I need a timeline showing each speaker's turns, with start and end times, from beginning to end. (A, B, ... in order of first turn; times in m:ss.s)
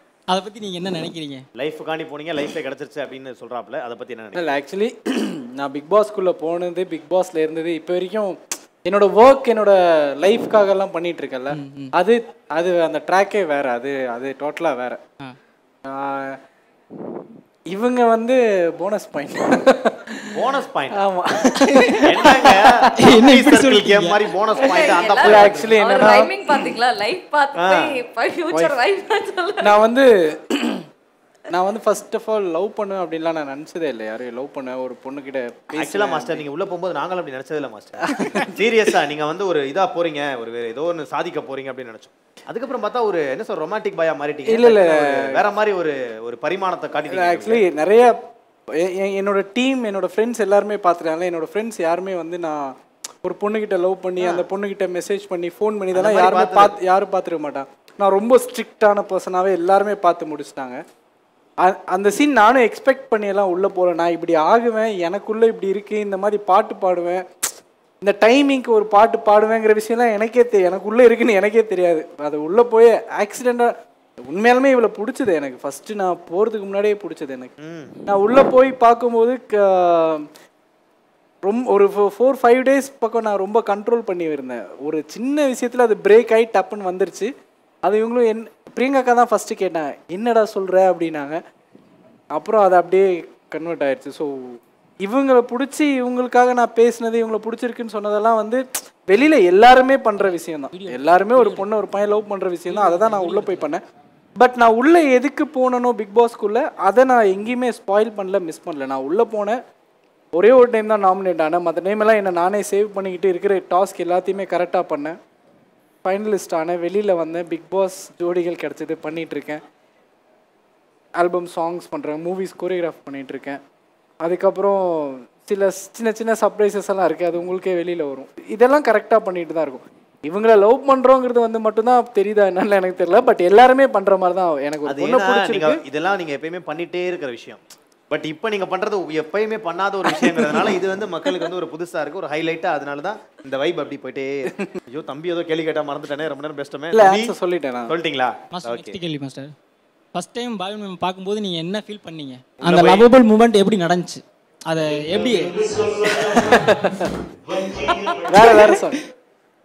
0:00.3-0:01.4 A
0:01.6-0:04.4 B
0:04.3-0:15.0 C
0:11.5-0:11.9 A
0:15.9-0:16.4 C
0:17.7-0:23.1 C
0:20.3-0:21.0 B
0:21.6-0:22.1 A
0:22.0-0:26.2 B
0:23.0-0:24.3 A
0:24.5-0:29.8 D
0:25.2-0:26.6 C
0:27.6-0:28.0 B
0:28.5-0:28.8 C
0:29.6-0:30.8 C
0:31.5-0:36.4 C
0:35.8-0:47.6 B
0:38.2-0:38.5 C
0:44.5-0:45.4 C
0:47.1-0:48.2 C
0:48.8-1:00.8 C
0:54.2-0:54.5 B
0:55.9-0:56.7 B
1:01.6-1:07.2 C
1:08.0-1:13.7 C
1:14.3-1:17.5 C
1:17.6-1:17.9 B
1:18.1-1:20.3 C
1:21.4-1:27.3 C
1:27.8-1:31.4 C
1:32.3-1:43.8 C
1:40.2-1:41.7 A
1:42.7-1:43.7 A
1:44.4-1:49.6 C
1:50.3-1:55.2 C
1:56.0-1:59.6 C
2:01.2-2:03.6 C
2:04.2-2:15.8 C
2:14.9-2:27.4 B
2:26.9-2:27.9 C
2:27.9-2:29.0 B
2:28.5-2:29.5 A
2:30.2-2:35.9 A
2:32.6-2:33.0 B
2:36.0-2:37.2 C
2:37.8-2:38.8 D
2:38.3-2:39.0 C